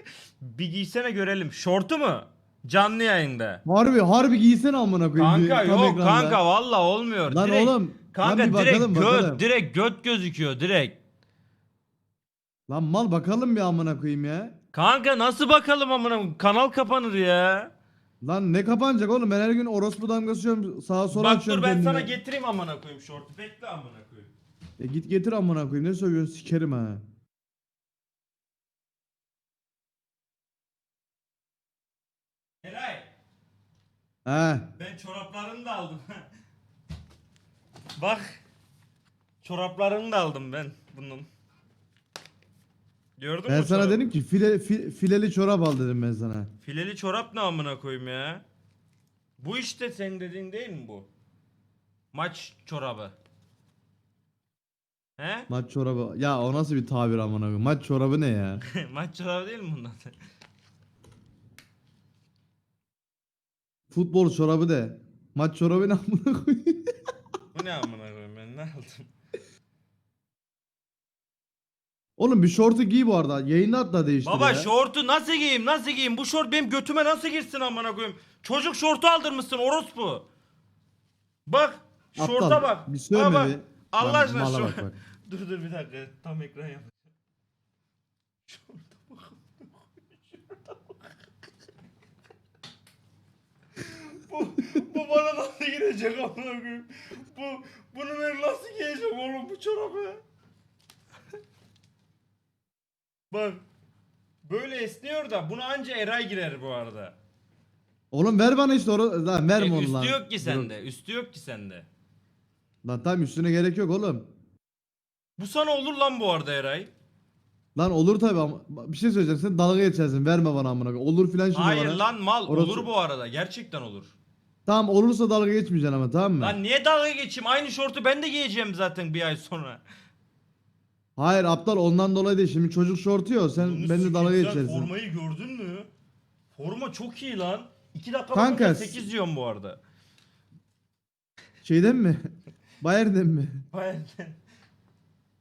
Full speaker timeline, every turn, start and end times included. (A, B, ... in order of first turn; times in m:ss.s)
0:00.4-0:03.6 A
0:03.6-0:06.4 B
0:05.2-0:11.0 A
0:07.2-0:09.4 B
0:12.7-0:14.6 B
0:14.7-0:17.7 A
0:18.2-0:22.1 B
0:21.1-0:24.3 A
0:24.8-0:27.0 B
0:32.6-0:33.1 A
0:34.2-0:34.7 B
0:34.8-0:36.3 A
0:38.0-0:38.4 A
0:39.4-0:41.3 A
0:43.2-0:44.1 A
0:43.5-0:46.5 B
0:46.6-0:48.4 A
0:49.4-0:51.1 A
0:52.1-0:53.1 A
0:55.2-0:55.5 A
0:55.5-0:58.6 B
0:58.7-1:00.1 A
1:03.9-1:06.9 B
1:07.5-1:09.1 A
1:12.2-1:14.7 B
1:14.2-1:20.3 A
1:21.5-1:26.9 A
1:22.2-1:25.0 B
1:28.5-1:31.2 A
1:33.8-1:40.2 A
1:43.3-1:43.6 A
1:44.4-1:47.2 A
1:48.1-1:50.7 B
1:49.6-1:51.9 A
1:52.8-1:54.3 B
1:55.4-1:56.9 A
1:57.8-2:02.9 B
2:01.5-2:04.1 A
2:04.6-2:06.6 B
2:06.4-2:09.8 A
2:11.2-2:14.9 B
2:13.6-2:15.9 A
2:16.5-2:19.8 A
2:18.3-2:19.0 B
2:21.6-2:23.6 B
2:23.7-2:24.4 A